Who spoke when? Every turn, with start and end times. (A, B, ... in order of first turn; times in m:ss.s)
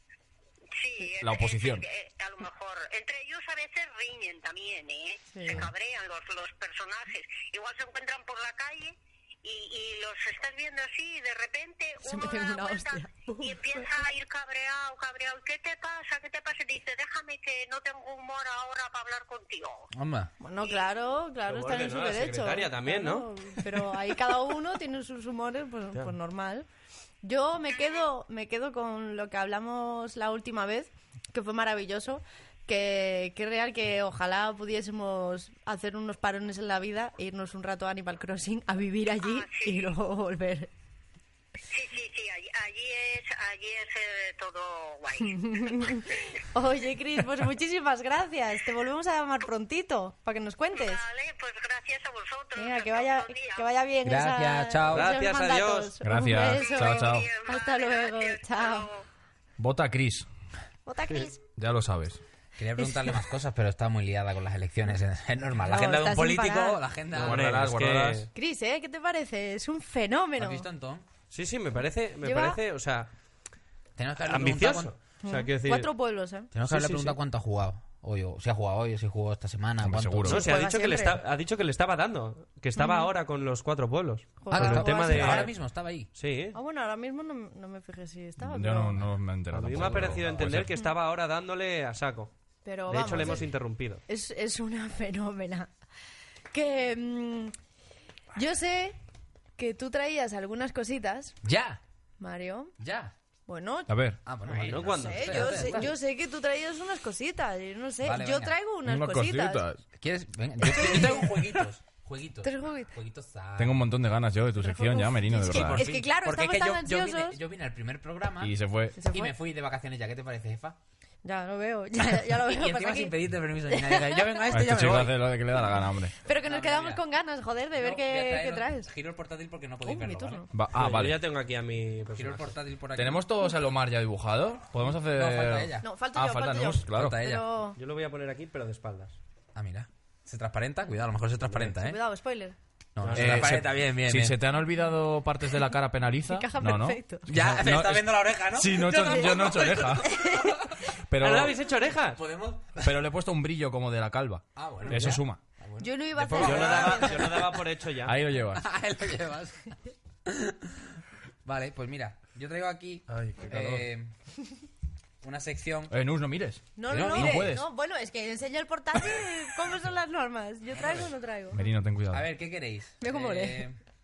0:00.8-0:19.9 A
0:01.2-0:01.8 B
0:05.3-0:05.7 C
0:12.0-0:13.9 C
0:19.9-0:20.3 D
0:20.4-0:26.7 C
0:20.6-0:20.9 A
0:21.5-0:23.3 E
0:27.2-0:40.7 C
0:27.7-0:28.0 A
0:39.2-0:39.9 A
0:41.7-0:46.0 A
0:45.2-0:51.0 C
0:50.7-0:53.7 A
0:52.6-0:58.9 C
0:54.0-0:55.1 D
0:54.9-0:56.0 E
0:56.0-0:57.3 B
0:56.4-0:59.0 A
0:59.6-1:00.3 B
1:00.9-1:01.4 C
1:01.6-1:02.2 B
1:02.6-1:07.6 D
1:02.8-1:03.2 C
1:05.6-1:06.8 C
1:07.1-1:08.3 E
1:07.1-1:08.3 B
1:08.3-1:10.7 C
1:10.4-1:11.0 D
1:11.3-1:13.1 E
1:12.2-1:12.6 C
1:14.0-1:14.9 D
1:14.2-1:15.9 E
1:15.2-1:16.5 C
1:16.5-1:20.4 D
1:16.6-1:17.2 E
1:19.8-1:20.4 B
1:20.2-1:25.6 E
1:20.3-1:21.2 C
1:22.8-1:23.1 C
1:24.4-1:25.5 C
1:24.5-1:26.1 D
1:26.1-1:26.6 E
1:26.5-1:29.0 C
1:28.4-1:30.8 B
1:29.5-1:32.3 E
1:29.7-1:30.5 D
1:32.6-1:33.5 C
1:32.9-1:34.0 E
1:33.1-1:33.4 D
1:34.1-1:35.7 C
1:36.5-1:37.5 C
1:38.4-1:39.0 C
1:39.6-1:41.4 C
1:41.4-1:41.8 D
1:42.2-1:42.8 C
1:42.8-1:43.1 D
1:43.5-1:43.9 C
1:43.9-1:44.7 B
1:44.2-1:45.9 D
1:44.5-1:45.9 E
1:44.8-1:49.6 C
1:48.0-1:48.6 D
1:48.8-1:49.8 B
1:49.9-1:53.8 D
1:50.6-1:51.5 C
1:50.8-1:51.0 B
1:52.4-1:52.9 C
1:53.6-1:55.9 B
1:54.6-1:57.4 C
1:55.4-2:00.8 D
1:58.4-1:59.0 B
1:59.0-1:59.3 C
2:01.2-2:03.2 C
2:02.2-2:05.3 D
2:03.7-2:04.5 C
2:04.5-2:06.2 B
2:06.2-2:08.9 C
2:06.4-2:07.0 D
2:07.8-2:10.4 D
2:09.8-2:10.5 C
2:10.5-2:11.2 B
2:10.7-2:12.6 E
2:12.2-2:13.2 D
2:13.0-2:17.2 B
2:15.0-2:15.9 D
2:15.8-2:17.8 C
2:16.9-2:17.5 D
2:17.8-2:19.2 E
2:19.5-2:22.0 D
2:21.6-2:22.6 C
2:23.0-2:24.4 D
2:23.0-2:23.6 E
2:23.2-2:30.1 B
2:26.3-2:27.2 C
2:27.3-2:30.7 D
2:28.9-2:30.8 C
2:31.1-2:31.6 B
2:31.2-2:32.2 E
2:32.1-2:33.0 D
2:32.8-2:35.4 B
2:34.5-2:37.6 D
2:35.8-2:37.4 C
2:36.4-2:38.2 E
2:38.0-2:38.7 B
2:38.5-2:40.8 D
2:41.4-2:44.1 D
2:43.1-2:43.9 B
2:45.2-2:45.9 D
2:45.9-2:47.7 B
2:46.8-2:51.6 C
2:46.9-2:47.5 D
2:50.8-2:51.1 D
2:51.5-2:52.3 B
2:52.1-2:53.8 D
2:53.0-2:53.7 C